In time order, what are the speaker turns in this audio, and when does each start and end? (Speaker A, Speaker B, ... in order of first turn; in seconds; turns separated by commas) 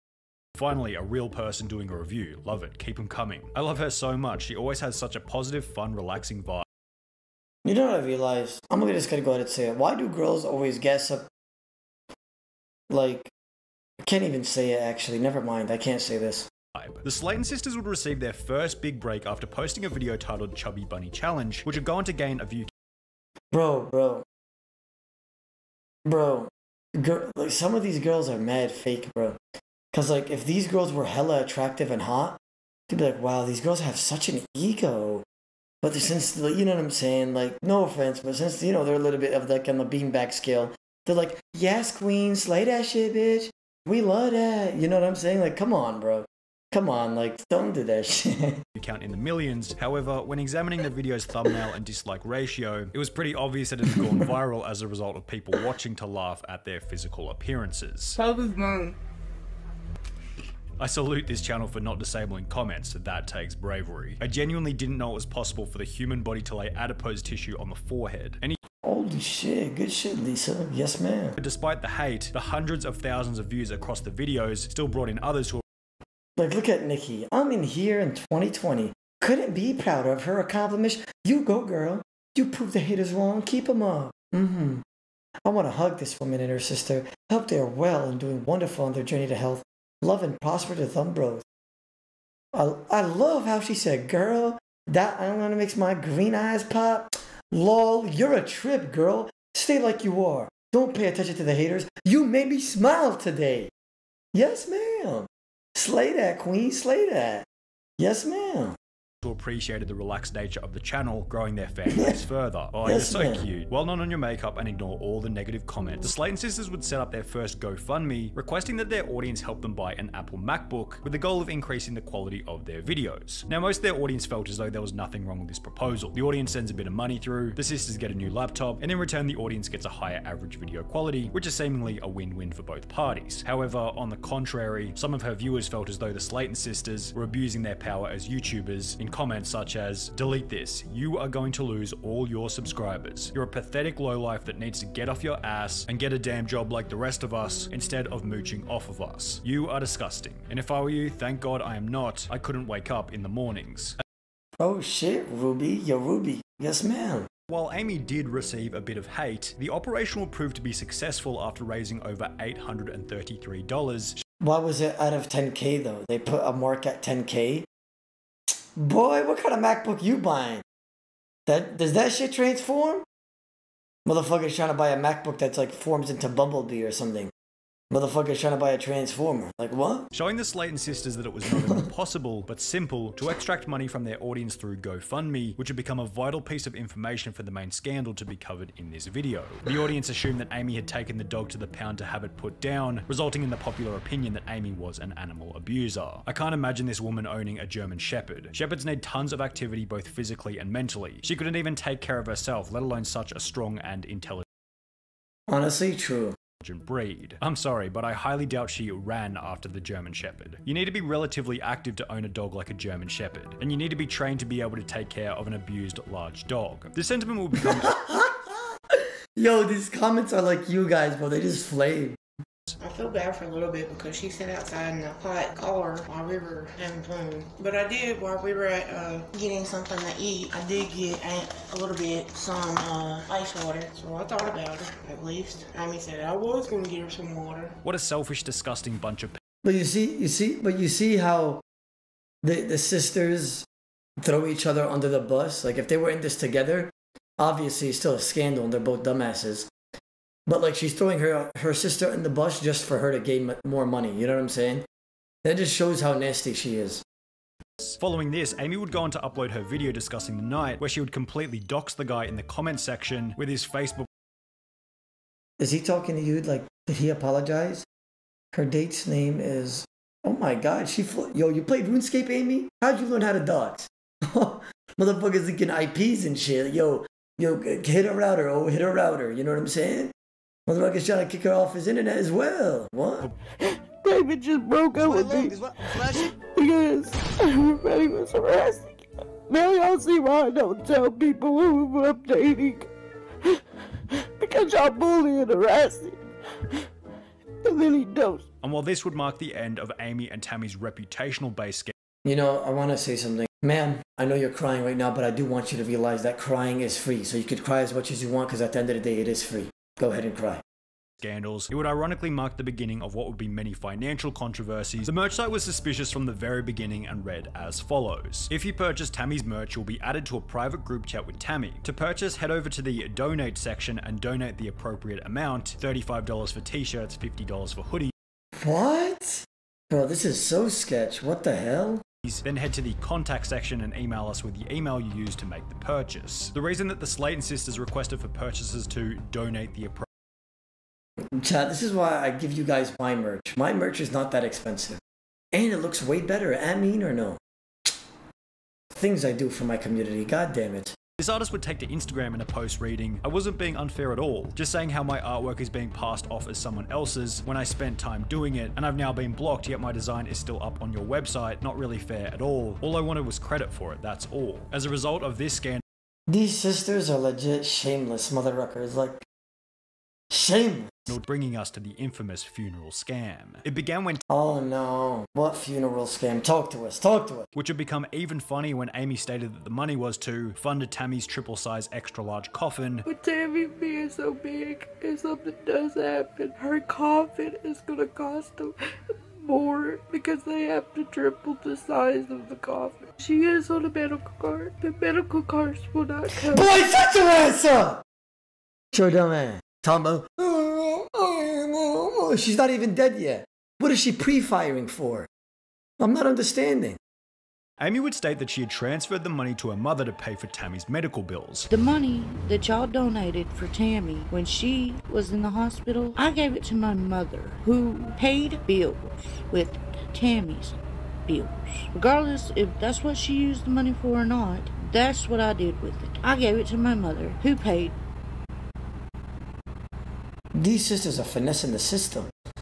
Speaker A: 0.6-6.7, Speaker B: 7.7-11.3, Speaker B: 12.9-13.3, Speaker B: 14.0-16.5, Speaker A: 16.8-22.7, Speaker B: 23.5-24.2, Speaker B: 26.1-29.4, Speaker B: 29.9-32.4, Speaker B: 32.9-35.2, Speaker B: 35.8-48.6, Speaker A: 48.8-58.2, Speaker B: 54.0-54.2, Speaker C: 58.2-59.0, Speaker A: 60.8-68.6, Speaker B: 68.8-71.4, Speaker A: 71.4-75.6, Speaker B: 76.4-84.8, Speaker B: 85.5-91.5, Speaker B: 92.5-103.7, Speaker B: 104.3-107.5, Speaker B: 108.0-108.8, Speaker A: 109.2-154.0, Speaker B: 111.9-112.2, Speaker B: 112.8-113.4, Speaker B: 154.6-157.3, Speaker A: 157.5-164.2, Speaker B: 164.4-167.7, Speaker B: 168.8-170.6, Speaker B: 171.5-173.1, Speaker B: 174.1-177.3, Speaker B: 177.9-180.1, Speaker A: 180.1-204.4, Speaker B: 205.5-206.4, Speaker A: 206.6-217.9, Speaker B: 217.7-222.2, Speaker C: 222.8-237.8, Speaker A: 237.8-239.4, Speaker B: 239.6-241.6, Speaker B: 242.4-243.7, Speaker B: 244.2-249.7, Speaker B: 250.5-254.8, Speaker B: 255.4-257.0, Speaker A: 257.8-264.1, Speaker B: 265.6-267.9, Speaker B: 268.5-280.1, Speaker B: 280.7-283.3, Speaker D: 283.6-292.9, Speaker B: 285.0-286.4, Speaker D: 294.4-296.2, Speaker D: 297.6-298.5, Speaker A: 298.6-301.9, Speaker B: 302.2-310.6, Speaker A: 311.2-328.1, Speaker B: 328.6-332.0, Speaker A: 332.2-340.1, Speaker B: 341.4-345.0, Speaker B: 345.5-347.4, Speaker B: 348.9-351.0, Speaker A: 351.2-365.8, Speaker B: 366.3-369.2, Speaker B: 370.3-371.2, Speaker A: 371.1-374.2, Speaker B: 374.3-377.5, Speaker A: 377.5-383.1, Speaker D: 383.1-388.7, Speaker D: 389.3-396.6, Speaker B: 396.3-398.0, Speaker B: 398.9-405.3, Speaker B: 406.0-407.0, Speaker A: 407.8-411.7, Speaker E: 411.7-414.1, Speaker D: 414.0-414.7, Speaker E: 414.6-418.9, Speaker D: 416.1-416.5, Speaker D: 418.5-419.0, Speaker E: 419.5-420.7, Speaker E: 421.3-421.5, Speaker D: 421.9-424.8, Speaker E: 422.4-427.9, Speaker D: 426.1-427.9, Speaker B: 430.6-432.3